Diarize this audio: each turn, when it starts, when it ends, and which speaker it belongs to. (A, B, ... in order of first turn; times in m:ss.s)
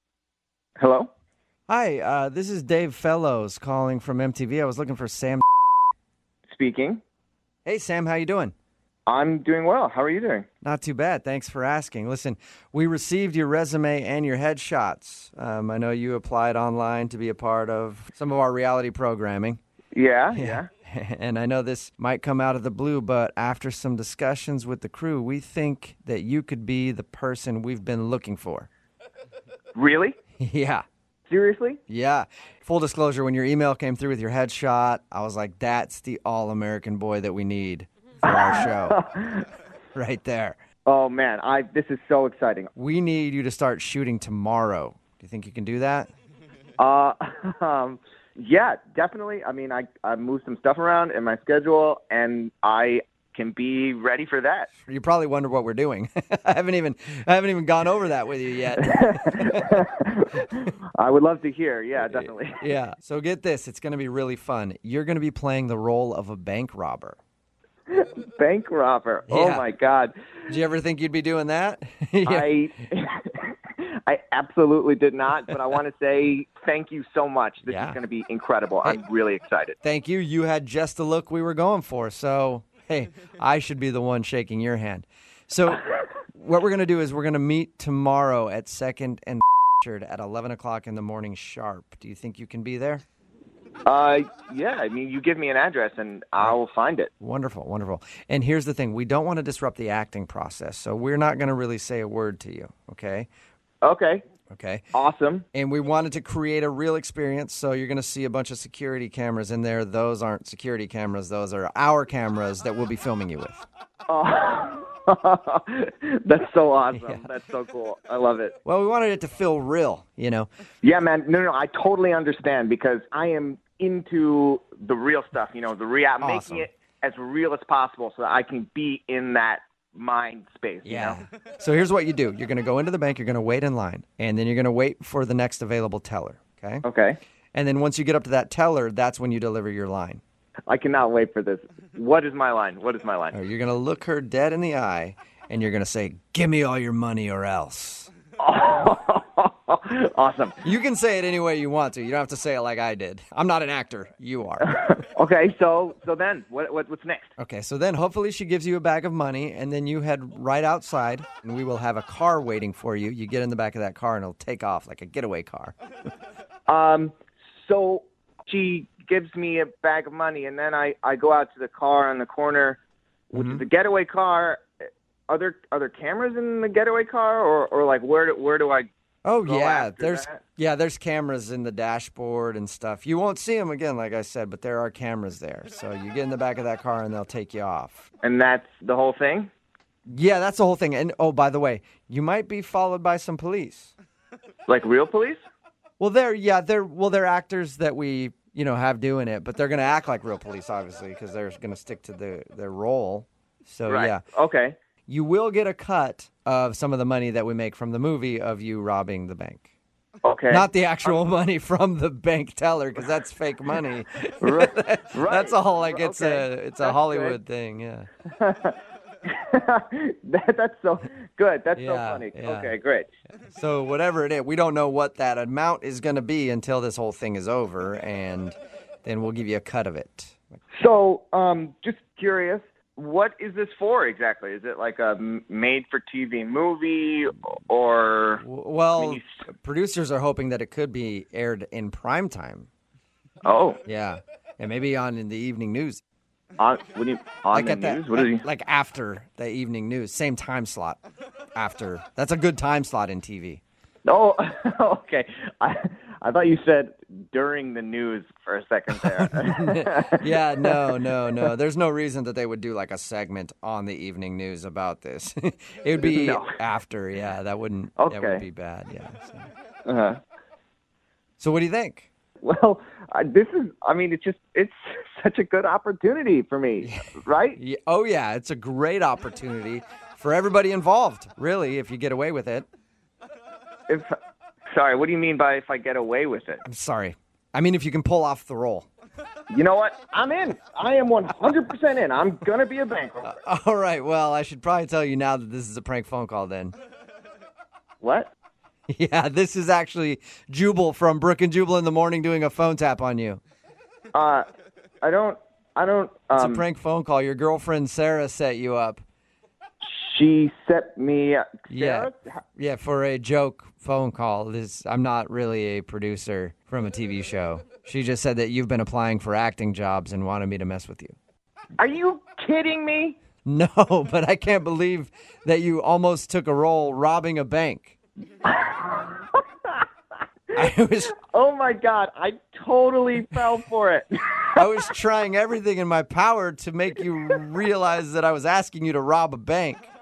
0:00.8-0:01.1 A
0:01.7-0:05.4 B
0:06.5-0:07.0 A
0:07.6-0:08.5 B
0:09.1-0:10.5 A
0:10.6-0:19.6 B
0:19.9-0:20.7 A
0:20.3-0:28.7 B
0:29.8-0:30.2 A
0:30.4-0:30.8 B
0:31.3-0:31.8 A
0:31.9-0:39.0 B
0:38.2-0:39.5 A
0:40.0-0:40.6 B
0:40.9-0:42.7 A
0:42.8-0:46.1 B
0:46.8-0:54.7 A
0:54.9-0:59.8 B
0:58.8-1:02.6 A
1:02.0-1:07.2 B
1:07.9-1:10.2 A
1:09.3-1:09.6 B
1:10.5-1:12.6 B
1:12.2-1:19.8 A
1:17.6-1:18.0 B
1:19.8-1:33.0 B
1:33.9-1:37.1 A
1:37.2-1:43.3 B
1:43.8-1:44.3 A
1:44.5-1:44.9 B
1:44.9-1:45.5 A
1:45.5-1:53.6 B
1:54.1-1:58.6 A
1:56.9-1:57.3 B
1:58.7-2:00.5 B
2:00.8-2:11.2 A
2:06.2-2:06.7 B
2:10.8-2:16.8 B
2:16.8-2:17.2 A
2:17.5-2:20.2 B
2:20.7-2:23.4 A
2:23.3-2:28.1 B
2:28.4-2:30.6 A
2:30.6-2:34.8 B
2:34.6-2:37.3 A
2:37.4-2:45.7 B
2:46.7-2:52.8 A
2:53.3-2:58.9 A
2:53.3-2:53.6 B
2:59.2-3:08.1 B
2:59.4-3:00.4 A
3:08.2-3:09.5 A
3:10.1-3:13.9 B
3:14.7-3:15.4 A
3:16.0-3:24.2 B
3:23.9-3:24.8 A
3:25.1-3:29.7 B
3:30.2-3:31.2 A
3:30.5-3:38.1 B
3:34.4-3:37.4 A
3:38.3-3:38.8 A
3:39.3-3:43.1 A
3:41.8-3:42.7 B
3:43.5-3:50.5 B
3:50.7-3:58.4 A
3:58.4-4:02.7 B
3:59.0-3:59.2 A
4:03.4-4:03.8 A
4:03.8-4:06.0 B
4:06.6-4:08.4 A
4:07.5-4:11.0 B
4:11.6-4:13.6 B
4:14.0-4:21.5 A
4:19.2-4:29.5 B
4:26.0-4:26.5 A
4:28.0-4:28.4 A
4:29.8-4:30.2 A
4:31.4-4:32.1 B
4:32.4-4:37.6 A
4:36.8-4:42.7 B
4:43.9-4:44.2 A
4:44.7-4:46.6 A
4:46.6-4:48.9 B
4:49.5-4:53.3 A
4:53.2-4:56.8 B
4:58.0-4:58.3 A
4:58.9-5:03.4 B
5:04.1-5:04.5 A
5:05.0-5:06.6 A
5:06.3-5:09.0 B
5:09.8-5:12.2 A
5:11.7-5:21.2 B
5:21.8-5:23.2 A
5:23.5-5:27.9 B
5:28.4-5:29.8 A
5:30.6-5:31.2 B
5:31.2-5:34.7 A
5:34.6-5:39.9 B